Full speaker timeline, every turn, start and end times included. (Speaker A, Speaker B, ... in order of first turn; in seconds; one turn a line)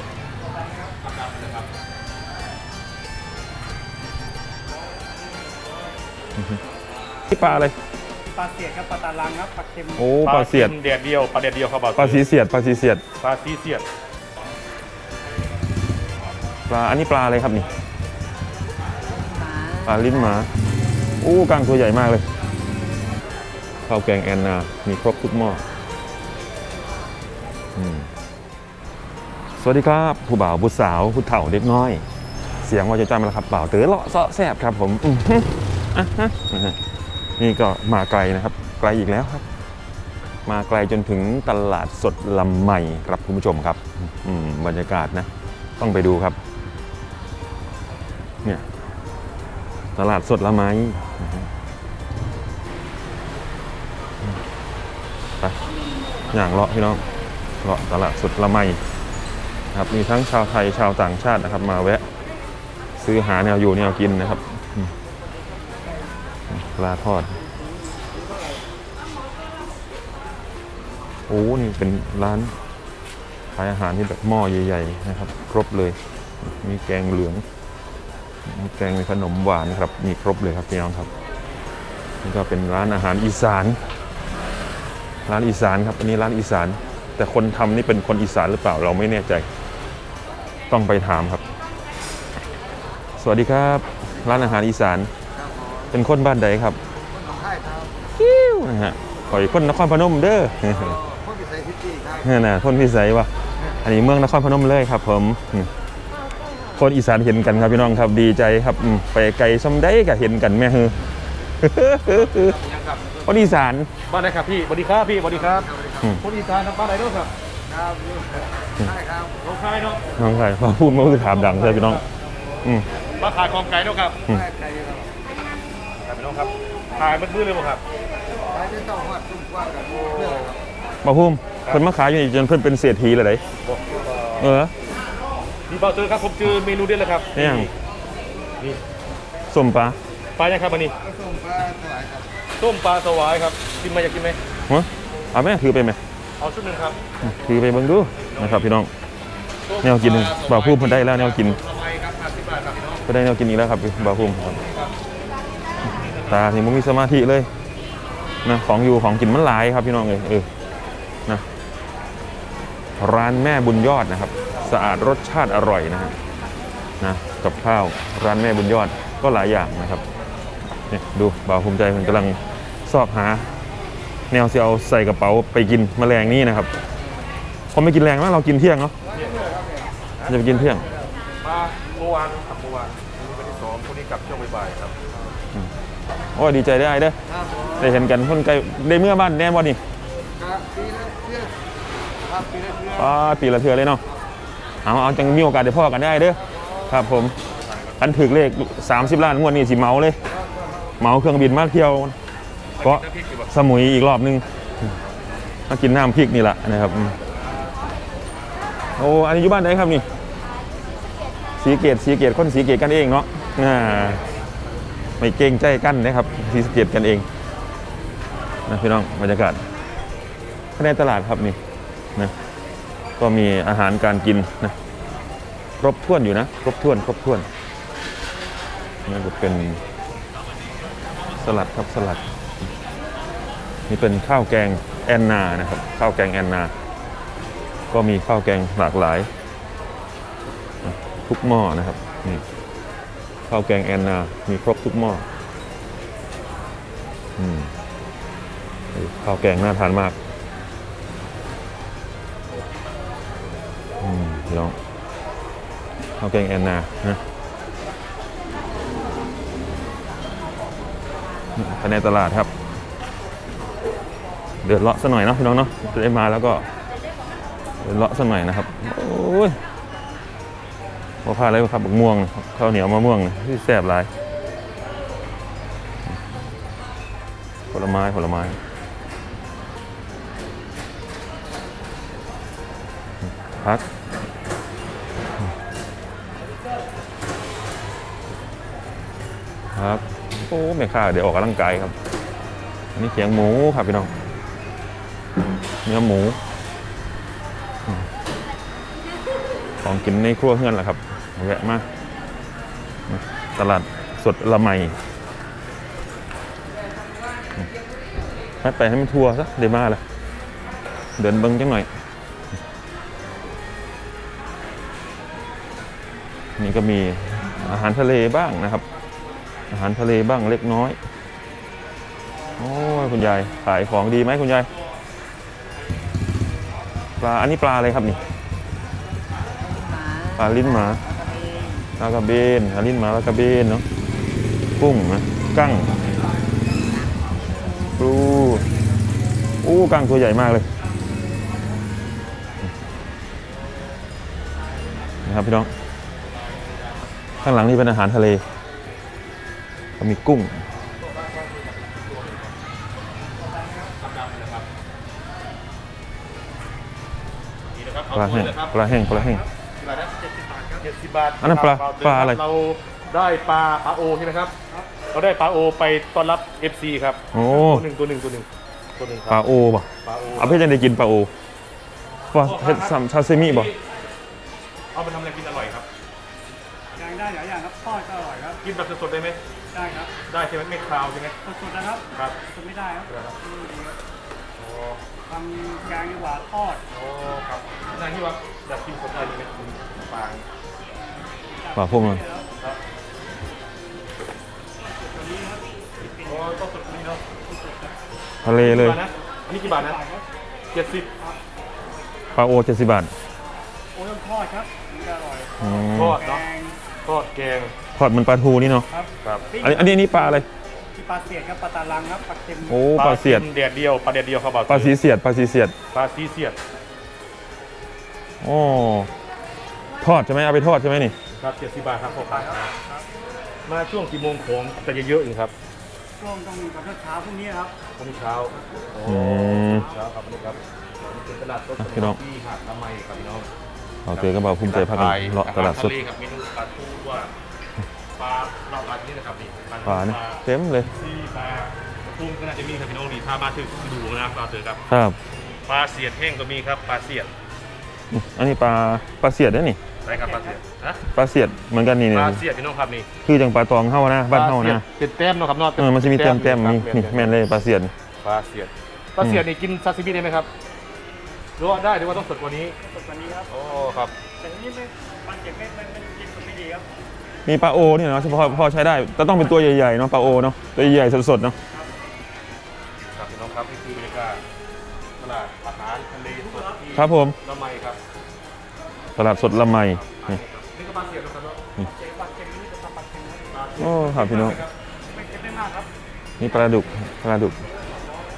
Speaker A: 0.5-0.9
Speaker B: 1.0-1.7
Speaker C: 7.3-7.8
Speaker A: 8.3-10.0
Speaker C: 10.0-10.8
Speaker B: 10.2-12.2
Speaker C: 12.0-13.0
Speaker B: 13.2-13.9
Speaker C: 16.7-17.7
Speaker D: 19.2-19.9
Speaker C: 19.8-20.5
Speaker C: 21.2-22.3
Speaker C: 23.9-25.6
Speaker C: 27.8-28.1
Speaker C: 29.6-32.0
Speaker C: 32.6-36.8
Speaker C: 37.4-39.4
Speaker C: 40.5-46.4
Speaker C: 50.0-51.5
Speaker C: 56.3-57.0
Speaker C: 57.6-58.8
Speaker C: 59.7-62.0
Speaker C: 63.0-64.9
Speaker C: 66.5-67.4
Speaker C: 71.3-72.5
Speaker C: 73.5-77.4
Speaker C: 78.5-81.1
Speaker C: 82.2-83.8
Speaker C: 85.3-89.5
Speaker C: 90.7-91.4
Speaker C: 93.2-95.1
Speaker C: 95.9-96.8
Speaker D: 97.3-97.9
Speaker C: 98.2-101.0
Speaker D: 101.1-102.1
Speaker C: 102.2-103.3
Speaker C: 103.8-105.7
Speaker C: 106.8-111.0
Speaker C: 111.6-112.5
Speaker B: 112.1-113.3
Speaker C: 113.2-113.9
Speaker B: 114.1-117.3
Speaker D: 117.7-119.3
Speaker B: 119.4-120.0
Speaker C: 120.2-122.0
Speaker B: 121.5-122.0
Speaker B: 123.2-124.2
Speaker D: 124.5-125.1
Speaker B: 126.0-127.8
Speaker D: 128.5-130.4
Speaker B: 130.1-130.4
Speaker C: 131.0-133.4
Speaker B: 133.6-134.6
Speaker C: 134.4-134.7
Speaker B: 135.7-137.7
Speaker C: 137.3-137.7
Speaker C: 139.5-140.0
Speaker B: 140.4-140.9
Speaker D: 141.2-142.2
Speaker B: 142.6-144.4
Speaker C: 144.7-146.0
Speaker B: 146.4-147.0
Speaker C: 147.2-148.9
Speaker B: 148.2-148.8
Speaker B: 149.7-153.1
Speaker C: 149.8-151.6
Speaker C: 153.1-154.6
Speaker B: 154.2-154.9
Speaker B: 155.8-156.4
Speaker C: 156.3-157.5
Speaker C: 158.4-160.5
Speaker C: 163.0-166.2
Speaker C: 167.0-170.0
Speaker C: 170.9-173.5
Speaker C: 174.3-176.7
Speaker C: 177.7-178.9
Speaker B: 179.1-179.5
Speaker C: 180.3-180.9
Speaker B: 181.4-184.9
Speaker C: 186.3-187.2
Speaker C: 187.8-189.8
Speaker D: 190.4-191.5
Speaker D: 192.3-192.9
Speaker C: 192.9-194.0
Speaker C: 194.8-197.4
Speaker B: 197.7-198.0
Speaker C: 198.0-200.2
Speaker C: 201.0-202.2
Speaker B: 202.8-203.5
Speaker C: 202.8-204.4
Speaker C: 205.7-207.2
Speaker C: 209.0-210.1
Speaker C: 211.6-214.2
Speaker C: 215.2-217.3
Speaker C: 218.7-219.6
Speaker C: 220.8-221.6
Speaker C: 223.2-224.8
Speaker C: 225.8-227.5
Speaker C: 229.1-229.8
Speaker C: 231.4-232.2
Speaker C: 233.9-236.7
Speaker C: 237.9-239.3
Speaker C: 240.8-242.4
Speaker C: 243.5-245.2
Speaker C: 247.4-247.7
Speaker C: 248.9-250.2
Speaker C: 254.0-254.8
Speaker C: 256.2-257.2
Speaker C: 261.6-262.5
Speaker C: 264.6-266.7
Speaker C: 267.8-269.6
Speaker C: 271.2-274.1
Speaker C: 277.7-278.6
Speaker C: 289.8-291.9
Speaker C: 293.0-294.1
Speaker C: 295.9-296.4
Speaker C: 299.8-301.9
Speaker C: 303.1-305.0
Speaker C: 308.6-310.0
Speaker C: 311.2-311.9
Speaker C: 316.6-318.9
Speaker C: 319.7-321.0
Speaker C: 322.6-324.7
Speaker C: 327.2-328.2
Speaker D: 329.8-330.4
Speaker C: 330.4-331.1
Speaker D: 331.1-331.8
Speaker C: 332.0-333.9
Speaker C: 334.8-335.9
Speaker C: 337.9-338.7
Speaker C: 339.6-340.7
Speaker C: 345.3-345.7
Speaker B: 346.3-347.1
Speaker C: 347.4-348.4
Speaker C: 350.0-350.6
Speaker B: 351.0-352.6
Speaker A: 353.4-353.9
Speaker B: 354.0-354.7
Speaker B: 357.7-358.9
Speaker C: 358.1-359.4
Speaker A: 359.0-360.9
Speaker B: 360.8-364.5
Speaker C: 361.4-362.4
Speaker B: 365.1-369.4
Speaker C: 367.3-367.9
Speaker C: 369.3-371.3
Speaker B: 370.0-370.6
Speaker C: 372.3-373.7
Speaker B: 372.4-373.8
Speaker B: 374.9-375.9
Speaker A: 377.0-378.6
Speaker B: 378.6-379.4
Speaker A: 379.7-380.1
Speaker B: 380.3-381.4
Speaker A: 381.4-384.0
Speaker B: 382.1-382.4
Speaker B: 383.1-383.3
Speaker B: 384.6-385.0
Speaker A: 385.3-386.8
Speaker B: 386.9-390.4
Speaker A: 391.5-392.5
Speaker C: 391.8-392.2
Speaker A: 394.8-396.6
Speaker B: 396.2-397.2
Speaker A: 397.5-398.0
Speaker C: 398.4-399.0
Speaker B: 398.6-400.0
Speaker A: 399.6-400.2
Speaker B: 400.7-401.1
Speaker C: 402.4-403.1
Speaker A: 403.9-406.8
Speaker C: 405.6-406.2
Speaker B: 405.9-406.4
Speaker B: 407.0-407.7
Speaker C: 408.0-408.9
Speaker A: 408.9-410.4
Speaker B: 409.2-409.5
Speaker C: 409.6-410.5
Speaker A: 410.9-412.8
Speaker C: 412.7-413.5
Speaker B: 412.9-414.9
Speaker C: 414.7-415.8
Speaker B: 415.9-416.6
Speaker C: 418.4-419.1
Speaker C: 420.0-421.2
Speaker B: 421.3-422.7
Speaker A: 422.1-423.1
Speaker B: 423.7-425.5
Speaker A: 426.2-427.7
Speaker B: 428.0-433.5
Speaker C: 429.0-429.9
Speaker C: 431.8-432.2
Speaker C: 434.1-435.9
Speaker B: 434.1-437.3
Speaker B: 438.2-444.8
Speaker C: 439.9-440.9
Speaker C: 444.9-445.2
Speaker B: 445.7-447.3
Speaker C: 448.1-449.8
Speaker B: 450.0-451.0
Speaker C: 451.1-452.4
Speaker B: 452.1-453.1
Speaker C: 453.2-454.8
Speaker B: 454.3-457.4
Speaker C: 455.8-457.9
Speaker B: 458.2-460.5
Speaker B: 461.6-462.8
Speaker A: 462.8-466.9
Speaker B: 463.5-464.1
Speaker C: 467.5-471.6
Speaker B: 473.0-474.4
Speaker B: 475.2-478.0
Speaker A: 476.4-476.9
Speaker C: 476.9-477.4
Speaker C: 479.2-480.4
Speaker B: 479.8-481.6
Speaker A: 481.9-483.7
Speaker B: 483.5-484.7
Speaker C: 483.8-484.6
Speaker A: 485.1-485.9
Speaker C: 486.4-487.6
Speaker A: 486.4-487.0